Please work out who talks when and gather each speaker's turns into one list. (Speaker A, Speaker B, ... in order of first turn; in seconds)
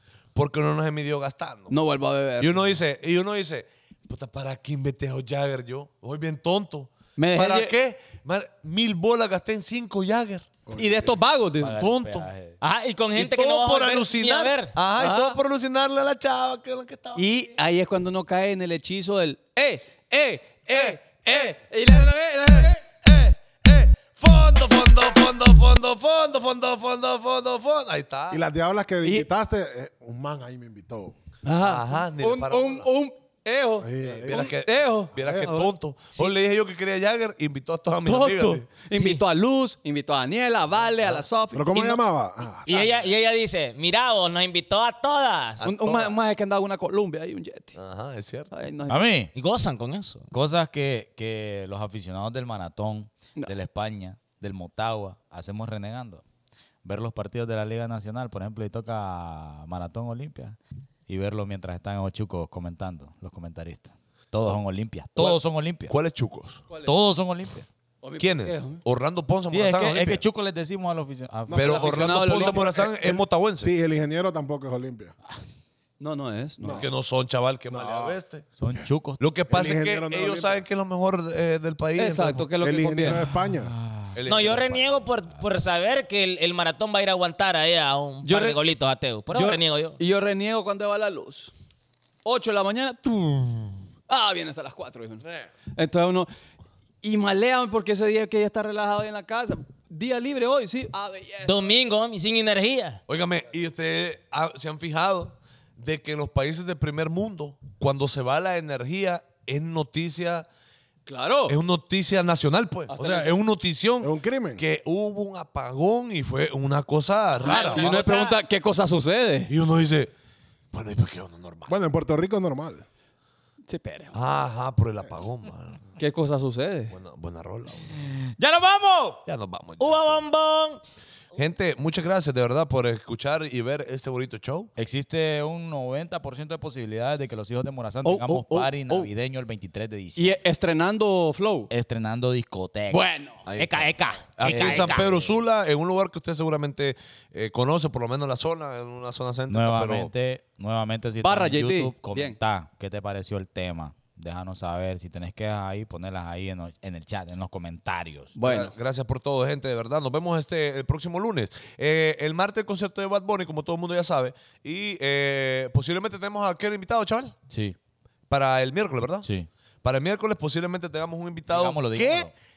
Speaker A: 0.3-1.8, 2.4-10.7, 11.8-12.3, 13.2-17.2, 20.7-21.5, 22.8-28.4, 31.6-32.9, 34.0-38.6, 41.0-41.2, 45.6-46.1, 47.8-48.5, 65.2-66.6, 68.2-70.2, 71.5-73.7, 76.7-78.4, 79.2-82.5, 84.1-85.0, 95.2-95.5, 103.1-110.5, 111.5-117.9, 119.5-120.1, 120.7-121.7, 124.1-125.9, 126.9-128.1, 129.2-130.2, 131.3-134.7, 143.5-150.1, 158.4-167.3, 168.3-169.3, 169.8-172.3
Speaker B: 1.7-2.6, 7.2-7.7, 10.7-11.8, 14.9-15.4, 17.1-22.8, 31.4-36.3, 38.0-42.0, 45.6-47.8, 48.5-49.0, 68.0-68.8, 71.5-73.2, 76.0-76.9, 81.9-83.2, 88.2-88.6, 89.3-91.5, 92.2-96.3, 97.0-101.6, 111.1-111.5, 112.9-113.4, 117.4-119.5, 123.7-124.2, 126.0-126.9, 138.0-139.1, 140.2-141.7, 142.9-143.4, 151.2-152.4, 158.3-158.7
Speaker C: 10.7-11.1, 28.3-31.1, 33.8-34.6, 35.2-35.7, 41.5-42.9, 71.5-75.1, 76.6-76.9, 77.7-78.2, 79.5-80.6, 82.6-83.7, 114.0-114.6, 121.7-122.8
Speaker D: 11.6-12.6, 48.9-49.3, 50.3-56.2, 56.8-65.9, 66.8-67.7, 69.5-71.9, 78.5-79.2, 83.1-84.5, 128.0-129.2, 134.8-140.3, 141.7-143.1, 144.4-145.3, 149.5-158.3, 167.5-167.8, 171.5-172.3
Speaker E: 12.6-14.8, 38.9-39.2, 42.7-45.7, 49.3-50.3, 84.3-90.0, 101.4-103.0, 117.4-118.4, 129.8-130.8, 143.6-145.1